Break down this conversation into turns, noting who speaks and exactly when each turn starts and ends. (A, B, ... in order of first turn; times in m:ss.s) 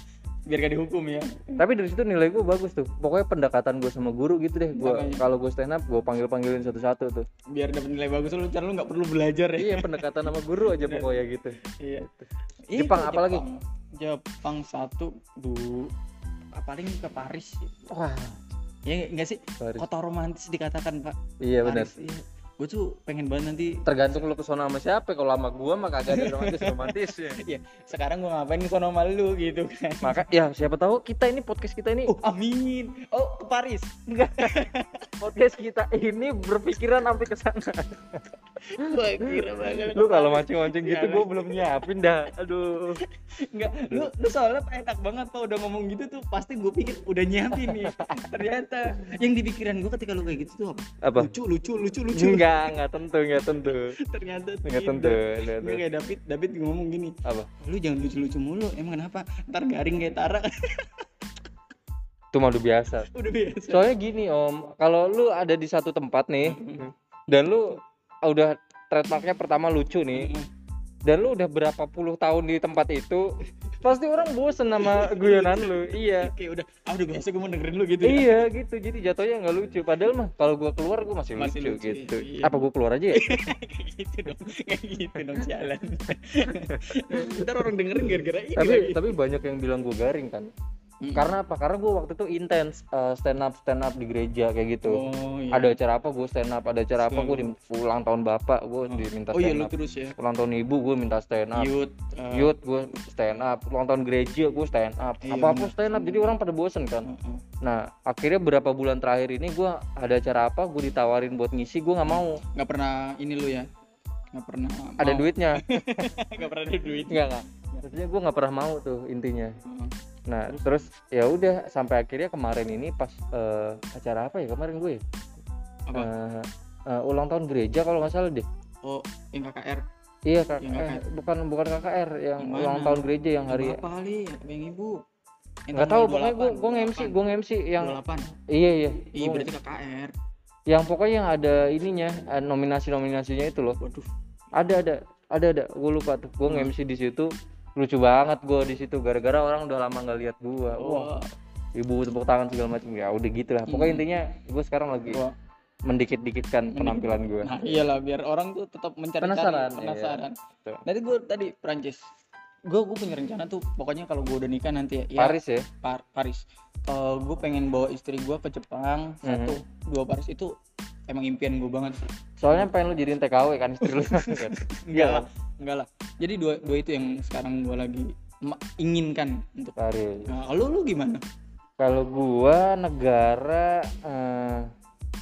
0:00.5-0:01.6 A
0:01.6-0:07.3 B
0:04.8-0:05.2 A
0:07.5-0:10.2 A
0:09.6-0:11.6 B
0:10.8-0:11.2 A
0:11.7-0:15.9 A
0:12.8-0:13.4 B
0:16.5-0:17.7 A
0:17.9-0:18.4 B
0:18.8-0:23.9 A
0:21.4-0:21.9 B
0:23.9-0:27.4 B
0:26.1-0:30.3 A
0:30.0-0:32.1 B
0:32.1-0:35.2 A
0:34.2-0:38.2 B
0:38.6-0:41.8 A
0:38.8-0:43.0 B
0:43.1-0:52.8 A
0:43.8-0:44.1 B
0:47.6-0:48.2 B
0:51.0-0:51.3 B
0:52.1-0:53.9 B
0:53.7-1:01.0 A
0:54.7-0:55.8 B
1:02.3-1:03.1 B
1:03.1-1:03.9 A
1:03.7-1:10.3 B
1:06.4-1:06.9 A
1:10.2-1:10.5 A
1:11.1-1:13.3 B
1:13.8-1:16.3 B
1:14.8-1:18.4 A
1:18.0-1:23.5 B
1:21.4-1:29.1 A
1:26.5-1:27.6 B
1:28.6-1:30.5 B
1:31.0-1:31.3 A
1:31.2-1:41.7 B
1:34.8-1:35.8 A
1:37.0-1:37.5 A
1:38.9-1:40.2 A
1:41.6-1:42.5 A
1:42.3-1:47.1 B
1:45.2-1:46.4 A
1:47.0-1:47.4 A
1:47.6-1:52.4 B
1:52.1-1:53.7 A
1:54.3-1:57.9 A
1:55.0-1:56.1 B
1:57.1-1:59.6 B
1:59.6-1:59.9 A
2:00.3-2:05.0 B
2:05.9-2:08.5 B
2:08.8-2:09.8 A
2:10.3-2:13.8 B
2:10.6-2:11.0 A
2:12.4-2:15.0 A
2:15.7-2:17.2 A
2:15.8-2:18.0 B
2:17.8-2:18.3 A
2:18.5-2:19.5 B
2:19.2-2:20.1 A
2:20.7-2:23.8 B
2:23.8-2:24.1 A
2:24.6-2:31.1 B
2:26.5-2:26.7 A
2:30.8-2:31.3 A
2:31.8-2:35.2 B
2:33.7-2:34.1 A
2:35.1-2:35.3 A
2:35.9-2:37.8 B
2:36.7-2:42.0 A
2:39.2-2:40.8 B
2:42.7-2:50.5 A
2:45.2-2:45.7 B
2:49.2-2:49.6 B
2:51.1-2:52.7 A
2:52.4-2:55.3 B
2:53.8-2:59.8 A
2:59.8-3:00.3 B
3:00.3-3:01.2 A
3:01.8-3:04.7 B